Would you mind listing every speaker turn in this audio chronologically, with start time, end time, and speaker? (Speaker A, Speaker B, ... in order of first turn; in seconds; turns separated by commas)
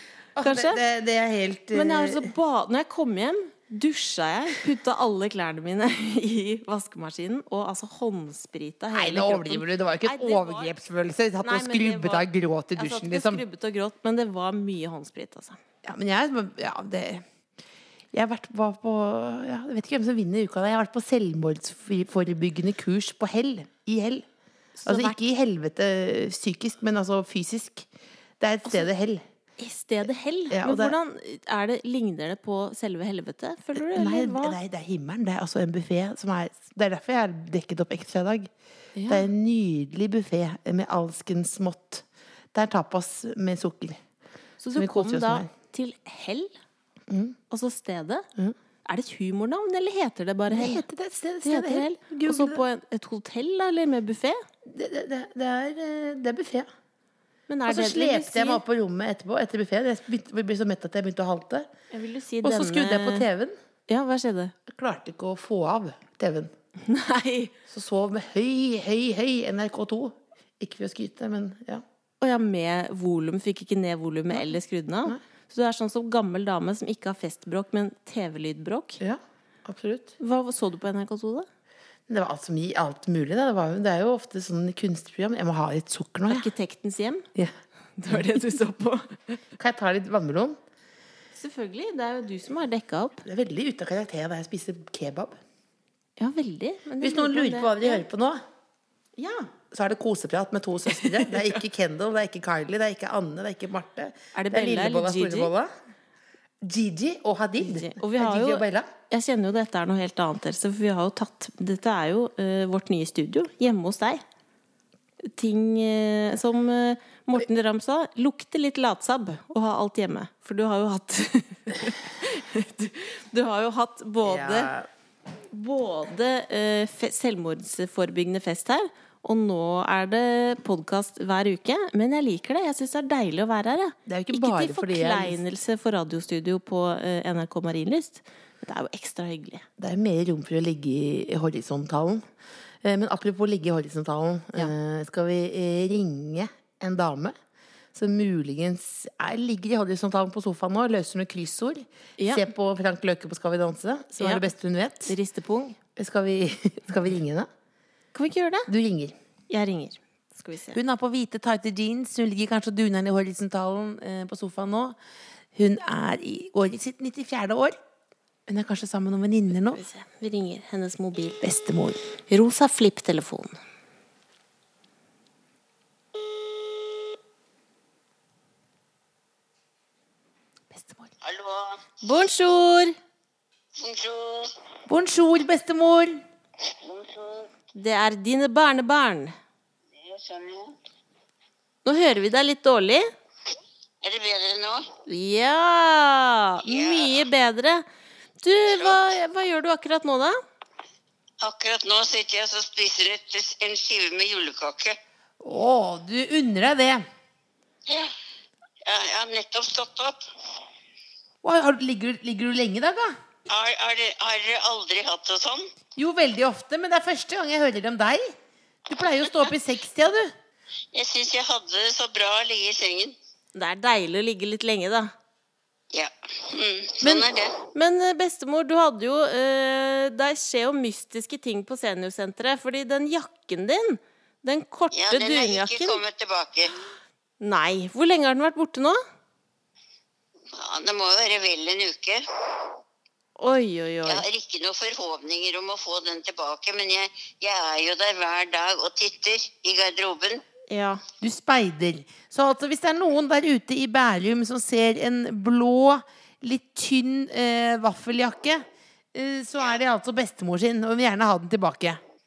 Speaker A: 0.4-2.3, Speaker B: 0.4-0.8, Speaker B: 1.7-10.7, Speaker A: 8.9-13.4, Speaker B: 11.4-12.2, Speaker B: 12.8-15.6, Speaker A: 15.8-17.2, Speaker A: 18.1-24.2, Speaker B: 24.8-25.2, Speaker A: 24.9-27.9, Speaker A: 28.4-29.2, Speaker B: 29.6-34.6, Speaker A: 30.5-31.0, Speaker A: 33.8-38.5, Speaker B: 39.0-39.3, Speaker A: 39.1-44.0, Speaker B: 44.6-46.5, Speaker A: 44.8-45.5, Speaker A: 47.1-47.4, Speaker B: 47.5-48.3, Speaker B: 48.9-50.8, Speaker A: 50.5-52.6, Speaker B: 51.5-54.4, Speaker A: 54.6-56.7, Speaker B: 57.5-58.6, Speaker A: 57.7-61.7, Speaker B: 61.9-63.3, Speaker A: 62.4-63.6, Speaker B: 63.9-64.5, Speaker A: 64.7-66.5, Speaker B: 66.8-67.5, Speaker A: 67.7-71.8, Speaker B: 72.2-79.0, Speaker A: 79.0-80.1, Speaker B: 80.2-81.5, Speaker A: 82.1-86.5, Speaker B: 86.3-87.3, Speaker B: 88.0-89.4, Speaker A: 89.6-90.6, Speaker B: 91.3-93.2, Speaker A: 93.2-95.4, Speaker B: 96.2-98.0, Speaker A: 97.0-98.4, Speaker B: 99.2-99.5, Speaker A: 99.7-105.7, Speaker B: 101.0-101.4, Speaker B: 104.3-105.5, Speaker A: 106.6-108.9, Speaker B: 107.6-114.2, Speaker B: 115.2-124.7, Speaker A: 124.2-124.9, Speaker B: 125.5-139.6, Speaker A: 134.1-135.4, Speaker A: 139.8-142.3, Speaker A: 142.8-147.3, Speaker A: 147.9-155.1, Speaker B: 152.2-152.4, Speaker B: 154.2-154.4, Speaker B: 155.1-155.8, Speaker A: 156.0-157.5, Speaker B: 158.1-158.7, Speaker A: 158.7-159.2, Speaker B: 159.5-160.8, Speaker A: 160.7-165.0, Speaker A: 165.5-167.8, Speaker A: 168.5-169.8, Speaker B: 169.7-171.4, Speaker A: 171.4-172.0, Speaker B: 172.3-173.6, Speaker A: 180.7-181.1, Speaker C: 181.2-181.9, Speaker B: 182.0-183.0, Speaker C: 183.8-184.5, Speaker A: 184.9-186.2, Speaker C: 186.6-187.5, Speaker B: 187.7-189.3, Speaker C: 189.9-190.8, Speaker B: 191.8-193.1, Speaker C: 194.0-194.9, Speaker B: 195.1-197.8, Speaker C: 196.6-197.2, Speaker B: 198.4-200.4, Speaker C: 198.7-199.0, Speaker C: 201.4-205.0, Speaker A: 205.4-207.0, Speaker C: 207.9-208.1, Speaker C: 208.8-210.2, Speaker A: 211.4-213.1, Speaker C: 213.5-215.7, Speaker A: 216.0-218.3, Speaker A: 218.9-220.3, Speaker C: 220.9-223.1, Speaker B: 223.6-225.1, Speaker C: 225.9-227.6, Speaker B: 227.7-236.0, Speaker C: 234.9-236.7, Speaker B: 237.4-239.0, Speaker C: 240.5-242.7, Speaker B: 243.4-244.2, Speaker C: 244.1-250.4, Speaker B: 250.7-251.0, Speaker A: 251.2-262.0